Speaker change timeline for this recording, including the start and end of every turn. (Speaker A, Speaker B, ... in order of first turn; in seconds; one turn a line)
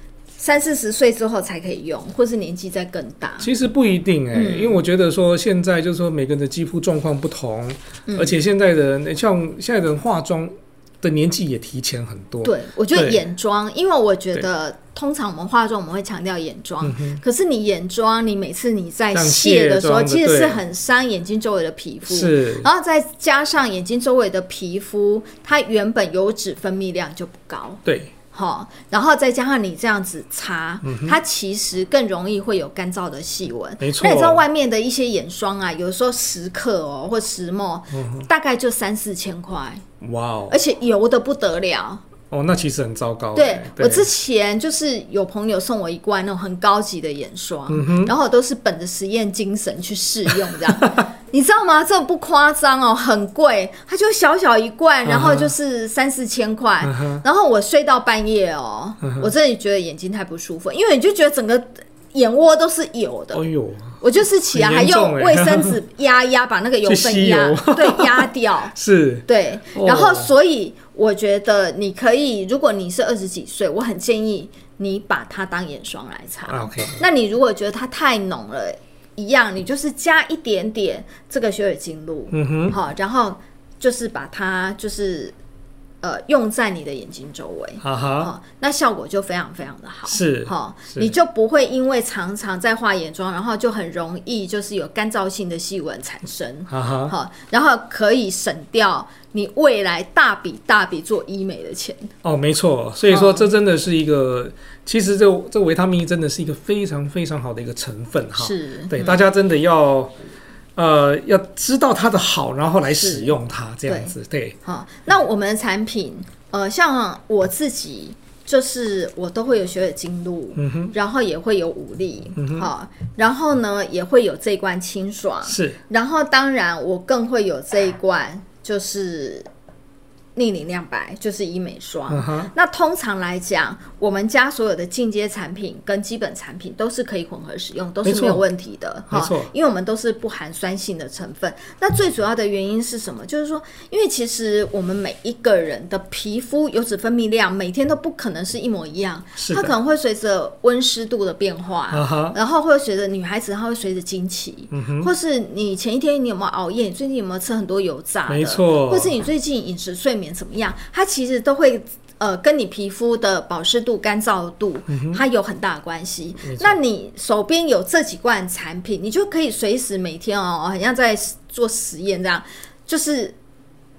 Speaker A: 0.4-3.5
Speaker B: 3.4-13.2
Speaker A: 4.3-4.8
Speaker A: 8.1-8.4
Speaker A: 12.4-27.8
Speaker B: 16.8-17.2
Speaker B: 19.1-20.6
Speaker B: 22.1-22.7
Speaker B: 27.8-28.1
Speaker A: 28.3-39.8
Speaker B: 30.8-31.1
Speaker B: 33.8-34.4
Speaker B: 38.0-38.3
Speaker B: 40.0-40.5
Speaker A: 40.5-42.0
Speaker B: 42.3-44.1
Speaker A: 43.3-63.4
Speaker B: 47.7-48.1
Speaker B: 55.0-55.5
Speaker B: 56.8-57.2
Speaker B: 63.3-64.0
Speaker A: 64.0-68.7
Speaker B: 64.5-65.8
Speaker B: 66.8-70.3
Speaker A: 69.3-85.3
Speaker B: 76.5-77.0
Speaker B: 82.3-82.8
Speaker A: 86.0-102.1
Speaker B: 87.8-88.3
Speaker B: 90.1-91.1
Speaker B: 96.7-97.1
Speaker B: 102.2-110.1
Speaker A: 103.1-103.5
Speaker A: 108.4-109.2
Speaker B: 110.8-114.5
Speaker A: 112.9-113.3
Speaker A: 113.9-129.5
Speaker B: 120.5-120.9
Speaker B: 122.4-122.7
Speaker B: 125.5-125.8
Speaker A: 130.3-173.3
Speaker B: 132.1-132.5
Speaker B: 138.0-138.4
Speaker B: 139.1-139.5
Speaker B: 149.4-149.7
Speaker B: 151.9-152.3
Speaker B: 154.7-155.1
Speaker B: 158.3-159.1
Speaker B: 164.9-165.2
Speaker B: 166.4-166.8